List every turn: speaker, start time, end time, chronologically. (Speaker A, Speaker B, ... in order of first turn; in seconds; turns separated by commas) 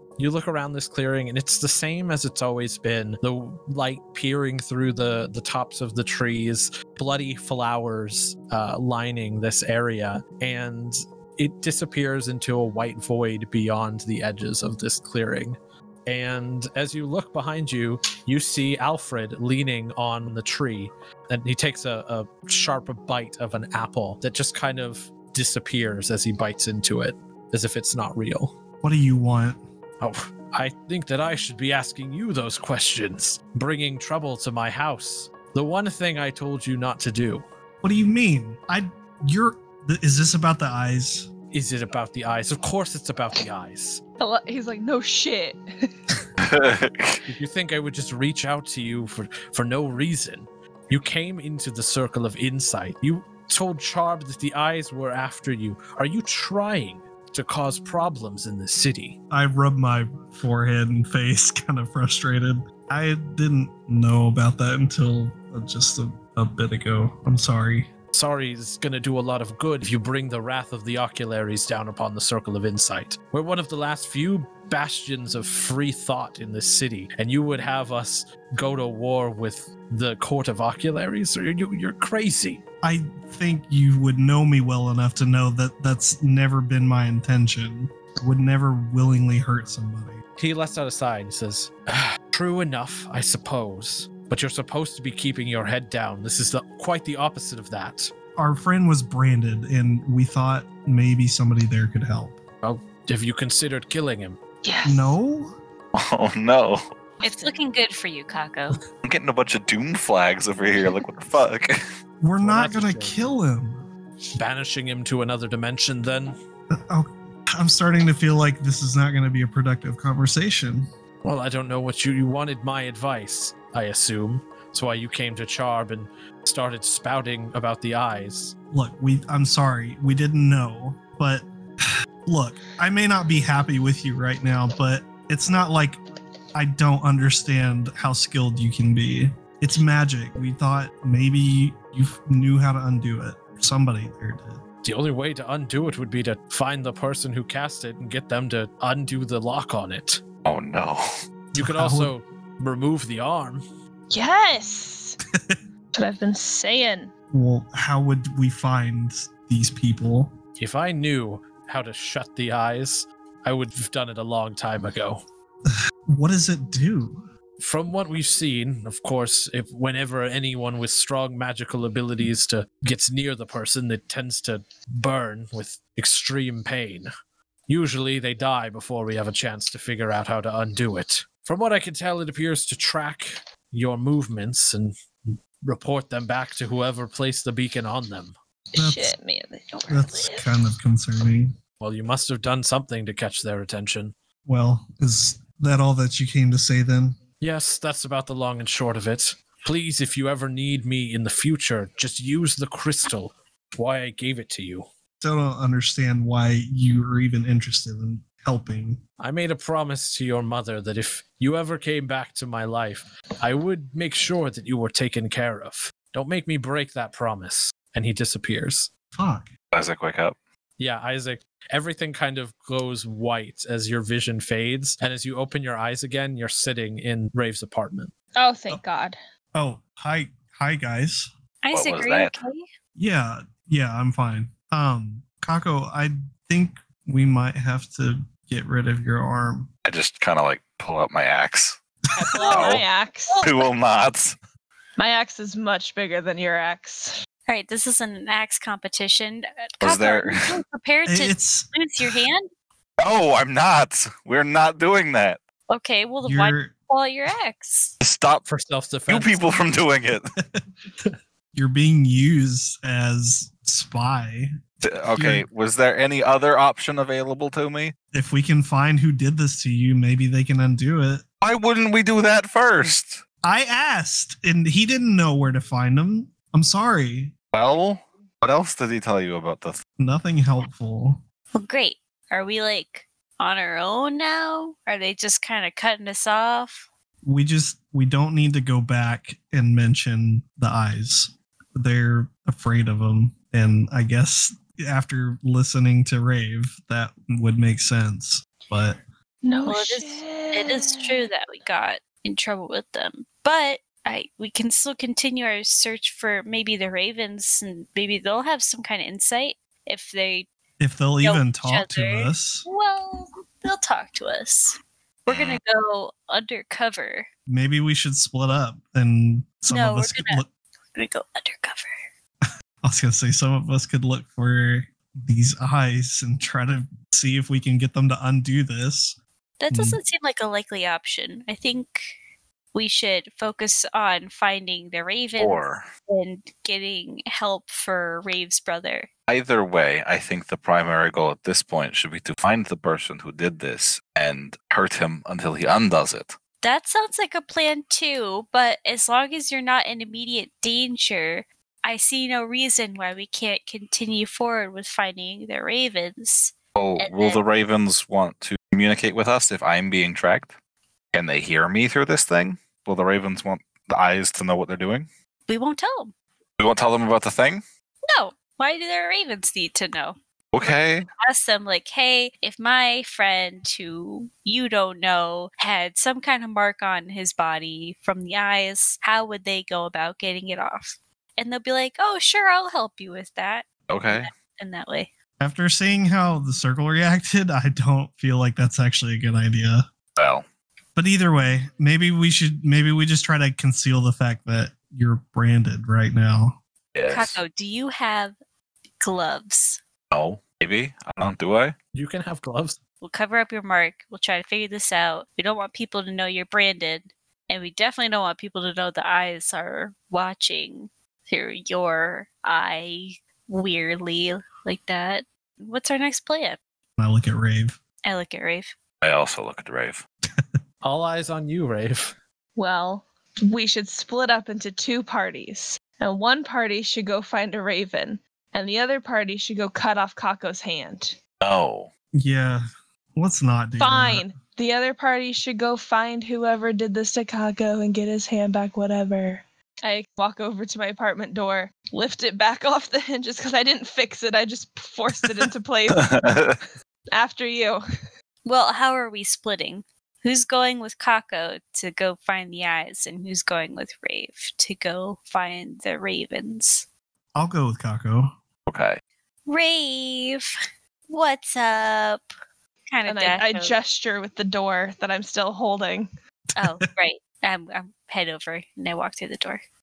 Speaker A: 0.2-28.5, Speaker B: 28.8-29.6, Speaker A: 30.0-37.4, Speaker B: 37.8-41.3, Speaker A: 41.5-44.0, Speaker C: 44.2-45.9, Speaker D: 46.4-47.2, Speaker A: 47.2-59.2, Speaker B: 59.3-67.9, Speaker A: 68.1-82.6, Speaker B: 82.8-90.2, Speaker A: 90.4-98.1, Speaker B: 98.3-102.4, Speaker A: 102.6-104.4, Speaker C: 104.6-105.0, Speaker B: 104.8-105.5, Speaker D: 105.9-106.8, Speaker C: 107.2-107.5, Speaker E: 107.2-108.8, Speaker D: 109.0-111.8, Speaker B: 112.2-113.8, Speaker A: 112.4-113.3, Speaker A: 114.4-116.4, Speaker B: 116.7-120.9, Speaker A: 121.2-128.6, Speaker B: 128.7-136.0, Speaker B: 136.5-144.6, Speaker A: 144.8-150.2, Speaker D: 150.4-151.0, Speaker A: 151.5-153.6, Speaker B: 151.6-152.1, Speaker C: 154.1-155.2, Speaker C: 155.9-157.1, Speaker B: 157.3-160.3, Speaker A: 160.6-165.2, Speaker B: 165.7-167.2, Speaker A: 167.6-177.1, Speaker A: 177.7-188.3, Speaker C: 188.7-190.5, Speaker B: 188.8-189.1, Speaker B: 189.9-191.5, Speaker A: 191.8-194.1, Speaker B: 194.5-197.2, Speaker A: 197.4-204.8, Speaker B: 205.2-209.0, Speaker A: 209.2-218.9, Speaker B: 219.1-219.5, Speaker D: 219.7-220.3, Speaker A: 220.8-228.1, Speaker C: 228.3-229.2, Speaker B: 229.5-231.3, Speaker E: 231.6-232.6, Speaker D: 231.7-232.4, Speaker B: 232.9-239.7, Speaker D: 239.8-241.8, Speaker E: 242.3-243.4, Speaker C: 242.3-243.6, Speaker D: 242.4-242.8, Speaker D: 243.4-244.3, Speaker C: 245.0-247.1, Speaker E: 247.5-252.5, Speaker D: 249.8-250.6, Speaker B: 251.1-252.2, Speaker D: 253.0-255.4, Speaker E: 255.7-257.9, Speaker B: 256.2-256.7, Speaker D: 258.0-258.5, Speaker A: 258.5-259.5, Speaker D: 259.1-260.2, Speaker B: 261.5-264.5, Speaker D: 264.8-267.9, Speaker B: 265.1-265.4, Speaker B: 268.1-271.2, Speaker D: 271.4-273.2, Speaker B: 273.4-277.3, Speaker D: 277.5-279.8, Speaker B: 280.0-281.2, Speaker E: 281.5-286.9, Speaker B: 287.2-299.0, Speaker C: 299.4-301.3, Speaker E: 299.6-310.5, Speaker B: 310.8-312.6, Speaker E: 311.2-317.3, Speaker D: 315.3-315.6, Speaker B: 317.5-320.5, Speaker E: 319.7-320.4, Speaker E: 320.9-321.9, Speaker B: 322.8-329.2, Speaker E: 329.6-332.1, Speaker B: 329.7-330.0, Speaker E: 332.7-339.1, Speaker D: 335.4-335.9, Speaker D: 339.3-346.4, Speaker E: 346.6-357.4, Speaker D: 356.8-360.5, Speaker D: 361.1-365.1, Speaker E: 365.5-366.1, Speaker D: 366.6-367.6, Speaker E: 368.1-385.1, Speaker D: 370.5-371.1, Speaker D: 383.9-384.3, Speaker B: 385.4-389.9, Speaker D: 390.2-390.4, Speaker B: 390.9-396.6, Speaker D: 396.9-397.4, Speaker E: 397.1-398.3, Speaker E: 399.0-399.8, Speaker D: 400.1-401.7, Speaker A: 401.9-402.8, Speaker E: 403.0-416.6, Speaker B: 417.0-417.8, Speaker E: 418.0-418.7, Speaker D: 419.0-420.0, Speaker A: 420.8-422.1, Speaker C: 422.6-431.2, Speaker D: 431.4-431.9, Speaker B: 432.1-432.6, Speaker B: 433.1-434.2, Speaker C: 433.8-446.3, Speaker D: 445.9-446.6, Speaker C: 447.1-447.8, Speaker E: 448.4-456.8, Speaker B: 457.3-458.3, Speaker D: 458.7-459.0, Speaker E: 459.5-460.5, Speaker E: 461.1-462.3, Speaker E: 462.9-463.8, Speaker C: 463.1-466.1, Speaker E: 466.6-469.6